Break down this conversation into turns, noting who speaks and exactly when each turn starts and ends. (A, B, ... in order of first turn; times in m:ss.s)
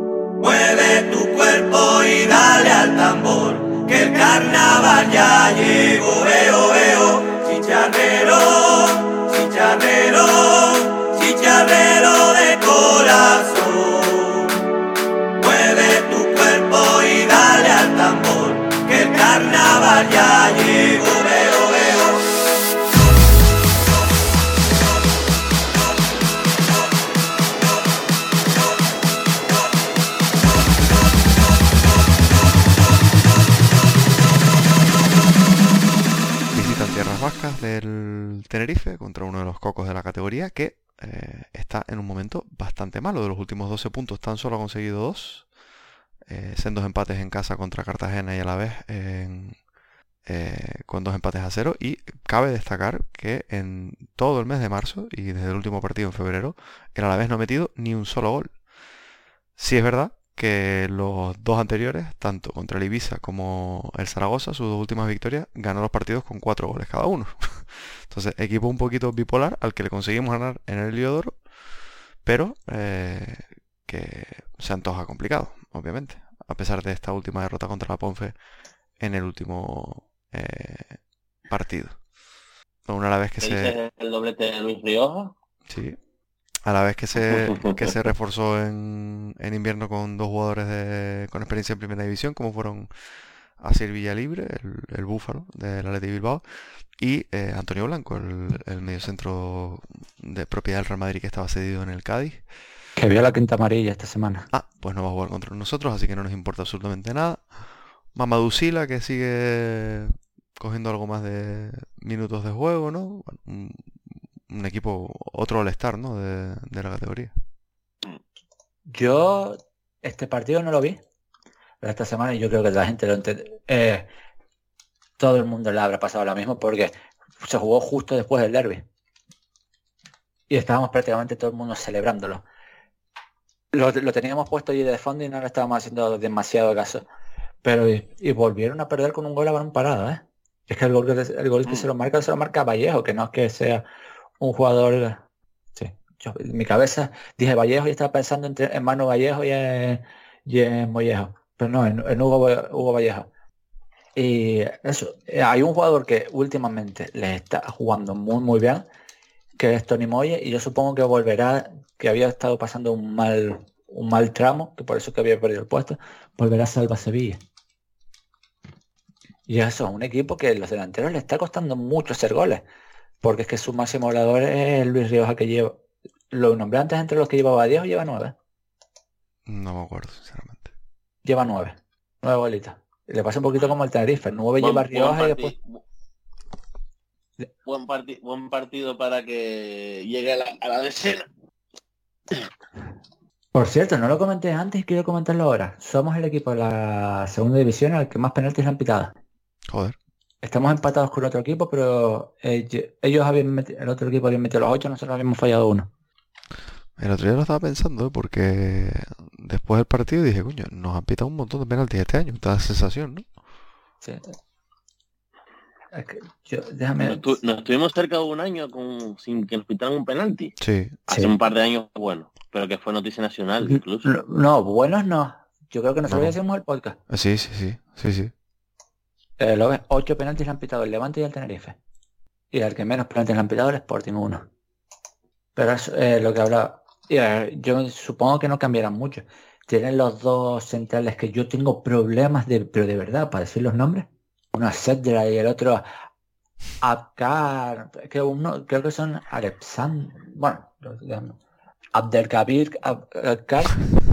0:00.4-0:14.5 A
0:15.4-0:22.2 A
0:36.5-0:45.5 B
0:46.3-0:49.6 B
0:50.2-0:58.5 B
0:59.6-1:11.4 B
1:12.2-1:18.4 B
1:19.0-1:22.0 B
1:22.8-1:23.8 B
1:23.4-1:25.3 C
1:25.6-1:26.0 B
1:26.6-1:32.9 B
1:27.3-1:27.9 C
1:33.6-1:42.4 B
1:43.0-1:44.5 D
1:44.5-1:47.5 B
1:48.1-1:57.3 B
1:58.9-2:01.0 D
2:01.8-2:04.1 D
2:05.2-2:08.8 D
2:10.5-2:12.4 D
2:13.7-2:17.0 D
2:17.6-2:23.8 D
2:24.4-2:25.2 D
2:25.8-2:33.3 D
2:34.1-2:38.8 D
2:39.6-2:47.4 D
2:49.5-2:52.6 D
2:53.2-2:58.3 D
2:59.4-3:00.7 B
3:01.2-3:05.5 D
3:04.6-3:05.6 C
3:07.6-3:11.2 C
3:13.5-3:19.1 D
3:19.7-3:20.0 B
3:20.4-3:25.9 D
3:27.0-3:33.2 B
3:34.0-3:34.3 D
3:35.9-3:37.4 D
3:37.0-3:40.6 C
3:40.6-3:41.0 B
3:41.1-3:44.1 C
3:43.6-3:47.0 D
3:46.1-3:46.4 B
3:47.1-3:48.3 B
3:49.4-3:51.8 D
3:52.5-3:54.5 D
3:55.6-4:05.8 D
4:06.8-4:11.4 D
4:11.9-4:13.8 D